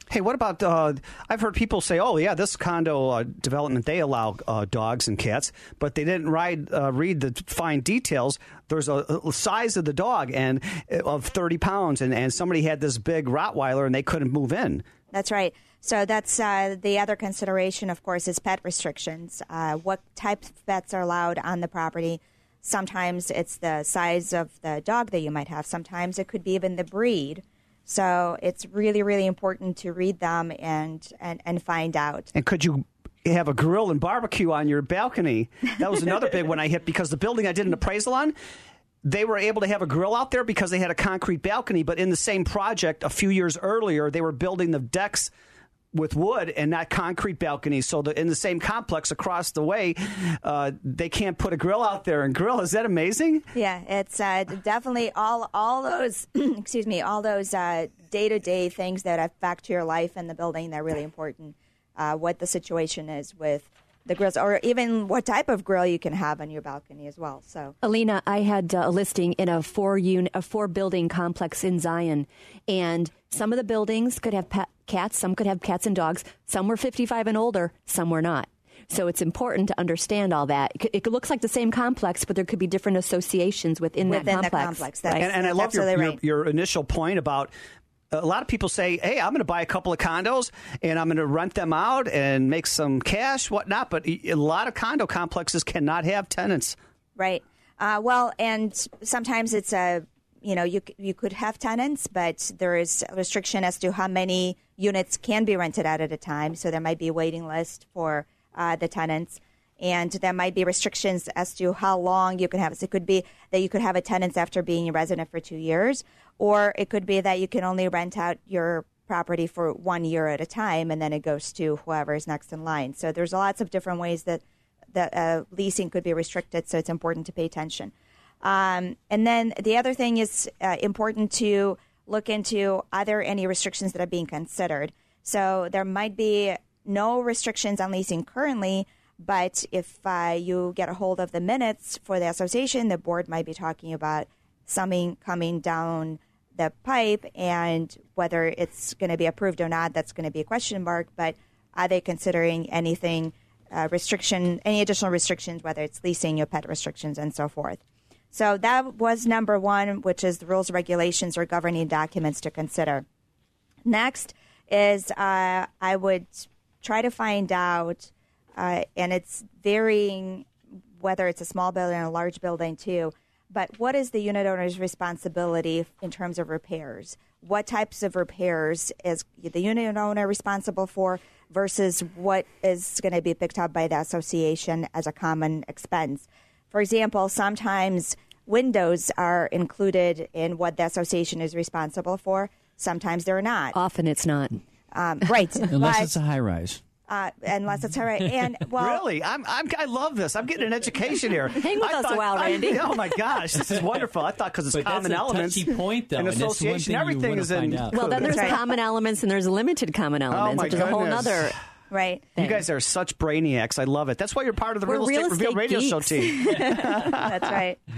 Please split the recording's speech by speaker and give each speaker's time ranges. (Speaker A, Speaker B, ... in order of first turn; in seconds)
Speaker A: 0.1-14.8, 32.3-38.3, 39.0-45.3, 45.9-53.4, 85.1-87.5, 88.1-96.8, 198.8-208.6, 210.3-211.5, 212.4-217.5
Speaker B: 15.1-32.3, 53.5-67.7, 84.0-86.2, 97.2-157.8, 158.3-163.0, 163.9-170.5, 171.0-193.7, 194.9-196.1, 197.1-199.0, 211.9-212.3, 217.1-217.8
Speaker C: 67.8-85.1, 193.7-194.6, 201.5-203.2, 207.9-211.5, 212.4-212.6, 214.8-217.1
Speaker D: 195.7-196.8, 203.7-204.0, 204.7-208.2